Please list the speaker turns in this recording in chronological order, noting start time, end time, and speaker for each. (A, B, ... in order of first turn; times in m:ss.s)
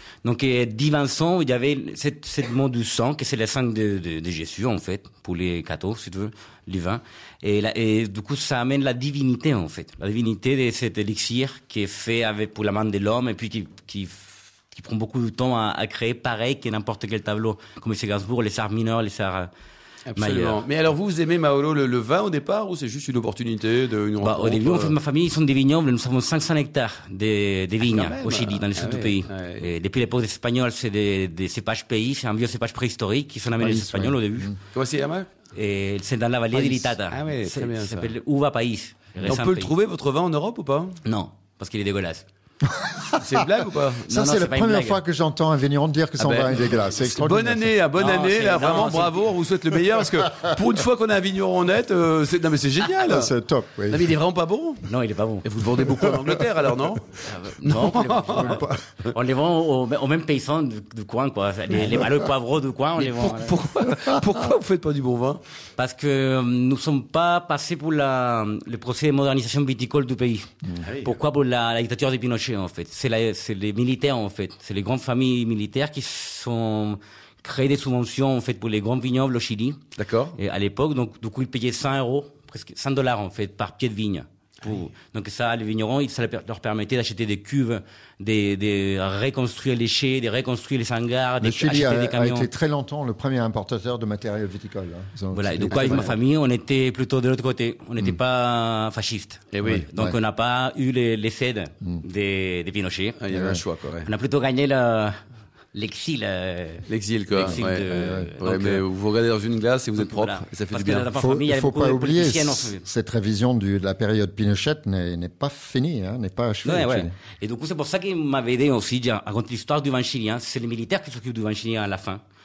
0:00.2-0:19.5 A
0:20.1-0:25.0 B
0:20.2-0:20.6 A
0:24.2-0:34.5 A
0:27.9-0:29.7 B
0:33.6-0:34.6 C
0:34.7-0:35.3 B
0:35.6-0:39.7 A
0:36.5-0:38.1 B
0:39.2-0:41.0 B
0:41.0-0:42.2 A
0:42.7-0:43.4 C
0:43.2-0:44.1 B
0:44.1-0:47.8 C
0:44.1-0:45.0 A
0:46.2-0:53.3 B
0:48.0-0:49.2 A
0:53.0-0:54.1 C
0:53.9-0:54.9 B
0:54.9-0:55.5 A
0:55.4-0:58.6 B
0:55.9-0:56.4 C
0:57.2-1:03.6 A
0:58.3-0:58.8 C
1:03.0-1:05.4 B
1:05.8-1:19.8 A
1:10.8-1:11.1 B
1:20.0-1:20.4 B
1:20.4-1:32.5 A
1:31.4-1:36.1 C
1:35.3-1:43.2 A
1:35.7-1:36.1 B
1:39.5-1:39.9 B
1:39.6-1:40.2 C
1:43.2-1:44.1 B
1:43.3-1:43.6 C
1:44.0-1:45.2 A
1:45.7-1:48.8 A
1:46.9-1:51.1 B
1:47.5-1:48.3 C
1:50.0-1:52.8 A
1:51.2-1:57.1 C
1:56.6-2:02.2 A